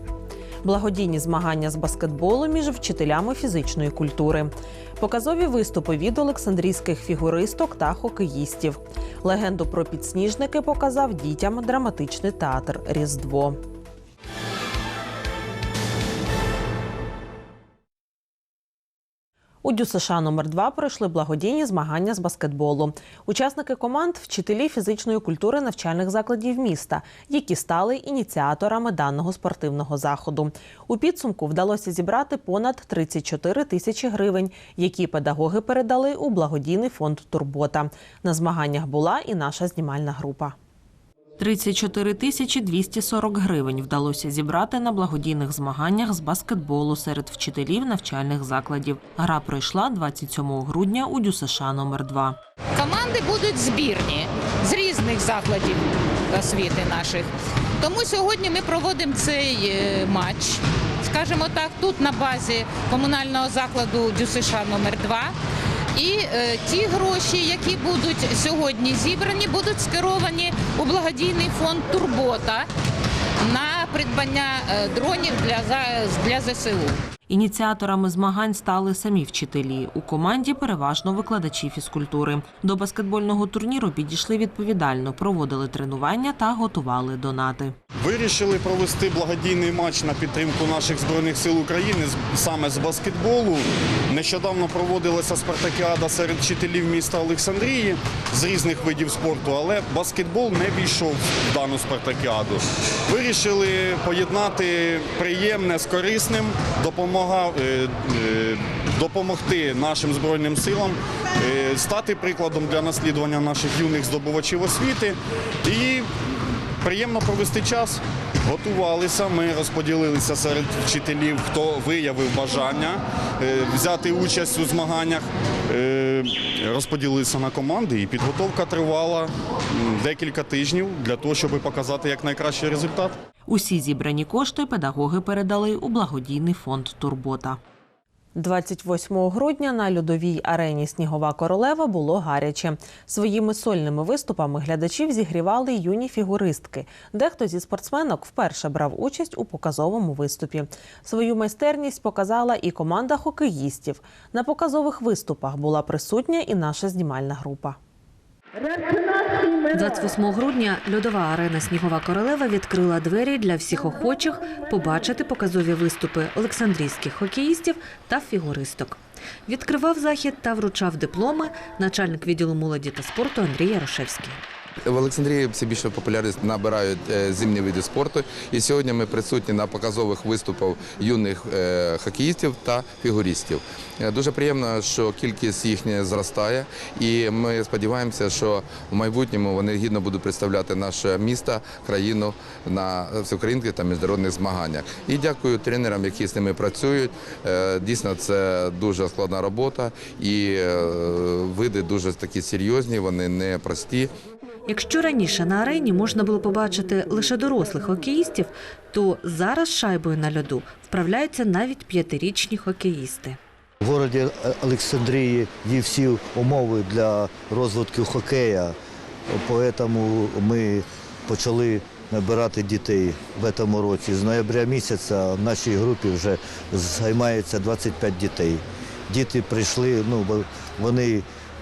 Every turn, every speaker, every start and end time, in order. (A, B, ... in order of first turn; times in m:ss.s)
0:00.6-0:13.6 A
0:19.6-0:40.6 A
0:41.4-0:52.4 A
0:52.8-1:05.4 B
1:05.9-1:12.7 B
1:13.4-1:17.0 B
1:17.3-1:27.8 A
1:28.0-1:56.1 C
1:56.8-2:13.2 C
2:13.5-2:17.6 A
2:18.4-2:37.8 A
2:39.7-2:54.4 D
2:54.9-3:24.1 E
3:24.7-3:33.4 D
3:33.8-3:38.8 F
3:39.3-3:51.2 F